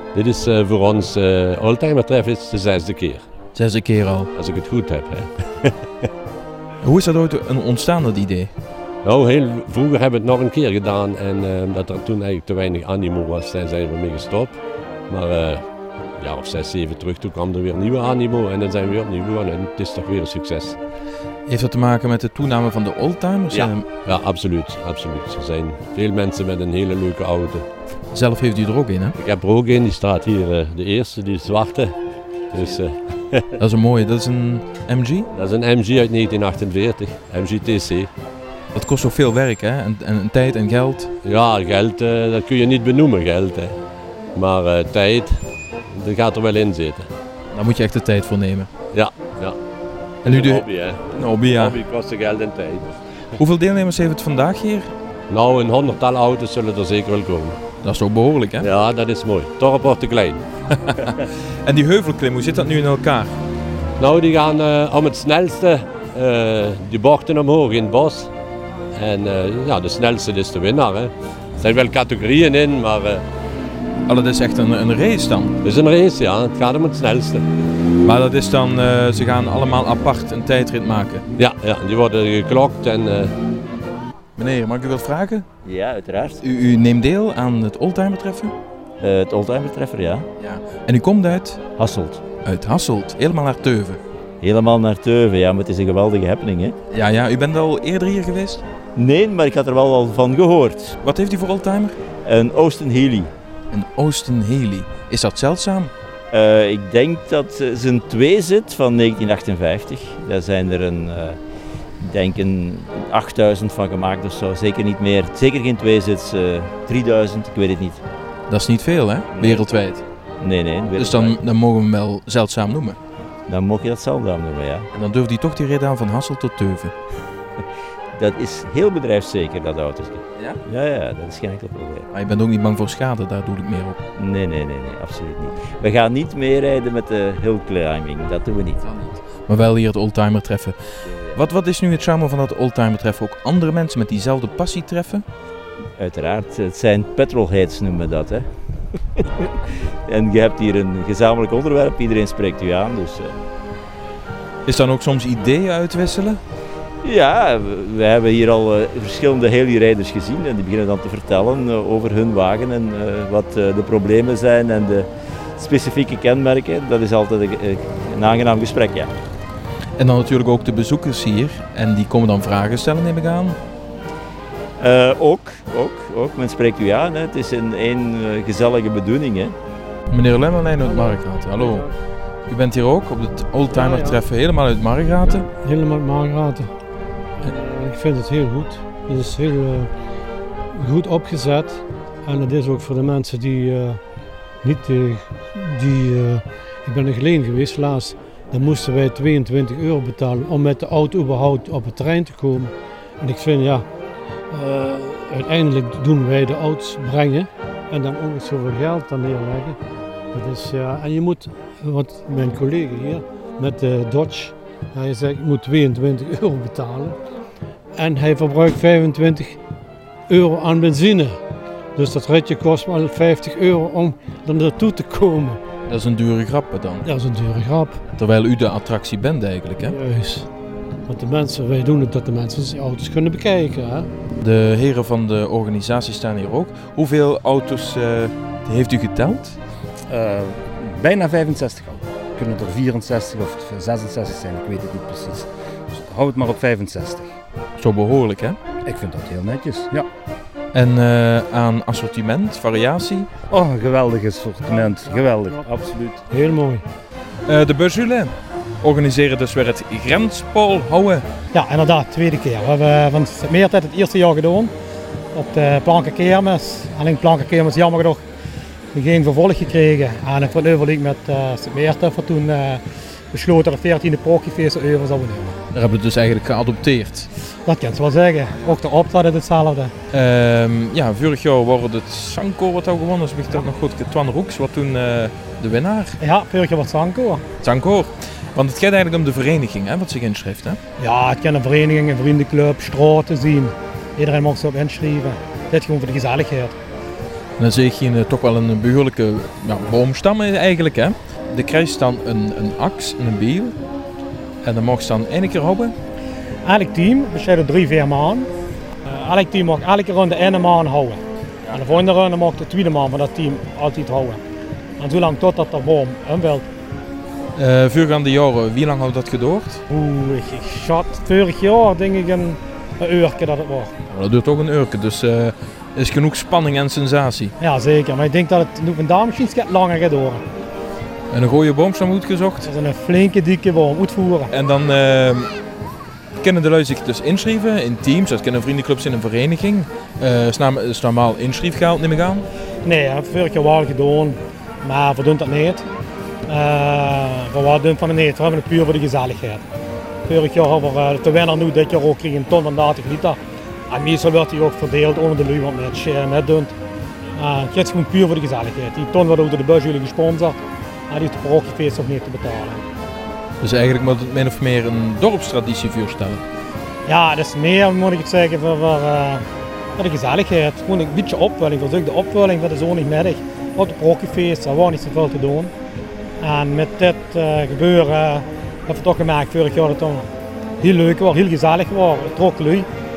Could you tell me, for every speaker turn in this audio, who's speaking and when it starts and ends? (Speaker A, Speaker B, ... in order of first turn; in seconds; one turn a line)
Speaker A: 0.1-3.2
Speaker B: 3.5-4.3
Speaker A: 4.3-5.8
Speaker B: 6.8-8.5
Speaker A: 9.0-15.6
Speaker A: 16.2-20.8
Speaker B: 21.5-23.9
Speaker A: 23.5-27.6
Speaker B: 28.1-29.1
Speaker A: 29.2-31.9
Speaker A: 32.5-33.5
Speaker B: 33.6-35.3
Speaker A: 35.3-38.1
Speaker B: 38.8-41.1
Speaker A: 41.2-43.8
Speaker A: 44.4-45.4
Speaker A: 45.9-47.1
Speaker B: 47.5-48.7
Speaker A: 48.9-49.6
Speaker B: 50.2-51.8
Speaker A: 50.2-52.9
Speaker B: 53.4-54.9
Speaker A: 55.3-57.6
Speaker B: 57.8-58.7
Speaker A: 58.6-60.4
Speaker B: 60.8-63.3
Speaker A: 64.0-68.3
Speaker A: 69.0-73.2
Speaker B: 74.1-75.6
Speaker A: 75.6-77.4
Speaker B: 78.0-81.2
Speaker A: 81.4-83.3
Speaker B: 84.4-85.5
Speaker C: 85.6-86.4
Speaker B: 86.4-88.5
Speaker C: 89.0-90.3
Speaker B: 90.4-91.6
Speaker C: 91.8-92.2
Speaker B: 92.4-94.0
Speaker C: 94.4-96.8
Speaker B: 96.9-98.6
Speaker C: 99.0-101.0
Speaker B: 101.0-102.0
Speaker C: 102.2-103.3
Speaker B: 103.7-105.9
Speaker C: 106.3-111.4
Speaker C: 112.0-118.0
Speaker B: 118.5-120.0
Speaker C: 119.3-119.7
Speaker C: 120.4-121.4
Speaker B: 121.0-123.0
Speaker C: 123.5-124.9
Speaker B: 124.9-126.9
Speaker C: 128.2-132.1
Speaker B: 132.1-134.0
Speaker C: 134.2-138.8
Speaker B: 138.8-140.8
Speaker C: 141.1-141.4
Speaker B: 141.3-145.2
Speaker C: 146.0-148.5
Speaker C: 150.1-153.3
Speaker B: 154.7-156.4
Speaker C: 157.0-169.1
Speaker B: 170.0-173.6
Speaker C: 174.8-179.5
Speaker B: 180.1-181.9
Speaker D: 180.8-181.9
Speaker B: 182.5-185.5
Speaker D: 183.7-184.2
Speaker D: 185.6-186.7
Speaker D: 187.4-189.9
Speaker D: 190.7-194.0
Speaker D: 194.6-203.8
Speaker D: 204.5-209.8
Speaker D: 210.3-217.2
Speaker D: 218.0-219.6
Speaker D: 220.3-221.4
Speaker D: 222.0-225.6
Speaker B: 225.9-227.1
Speaker D: 227.0-228.0
Speaker B: 228.1-230.0
Speaker D: 229.8-230.5
Speaker D: 231.1-234.1
Speaker B: 234.4-239.6
Speaker E: 240.1-247.3
Speaker B: 247.8-248.6
Speaker E: 248.9-250.1
Speaker B: 250.7-253.3
Speaker E: 253.5-256.2
Speaker D: 254.7-255.7
Speaker D: 256.3-256.9
Speaker B: 257.5-261.2
Speaker F: 261.5-264.7
Speaker F: 265.3-268.2
Speaker F: 268.9-275.6
Speaker B: 275.7-277.3
Speaker F: 277.6-279.9
Speaker B: 280.1-286.2
Speaker F: 286.2-287.4
Speaker B: 287.6-290.8
Speaker F: 291.0-296.8
Speaker B: 297.6-303.7
Speaker B: 304.6-305.9
Speaker F: 306.6-308.5
Speaker F: 309.1-311.2
Speaker F: 311.7-314.4
Speaker F: 315.0-316.7
Speaker B: 317.6-319.8
Speaker F: 319.9-323.9
Speaker B: 324.1-327.5
Speaker F: 327.6-330.4
Speaker B: 331.3-332.7
Speaker F: 332.6-334.5
Speaker B: 334.5-335.5
Speaker B: 336.4-342.5
Speaker F: 342.9-345.9
Speaker F: 346.5-349.6
Speaker F: 350.3-353.4
Speaker F: 353.9-356.7
Speaker F: 357.4-360.6
Speaker F: 361.1-362.8
Speaker B: 363.6-366.4
Speaker F: 367.1-369.4
Speaker F: 370.0-375.7
Speaker F: 376.4-380.3
Speaker F: 380.8-382.9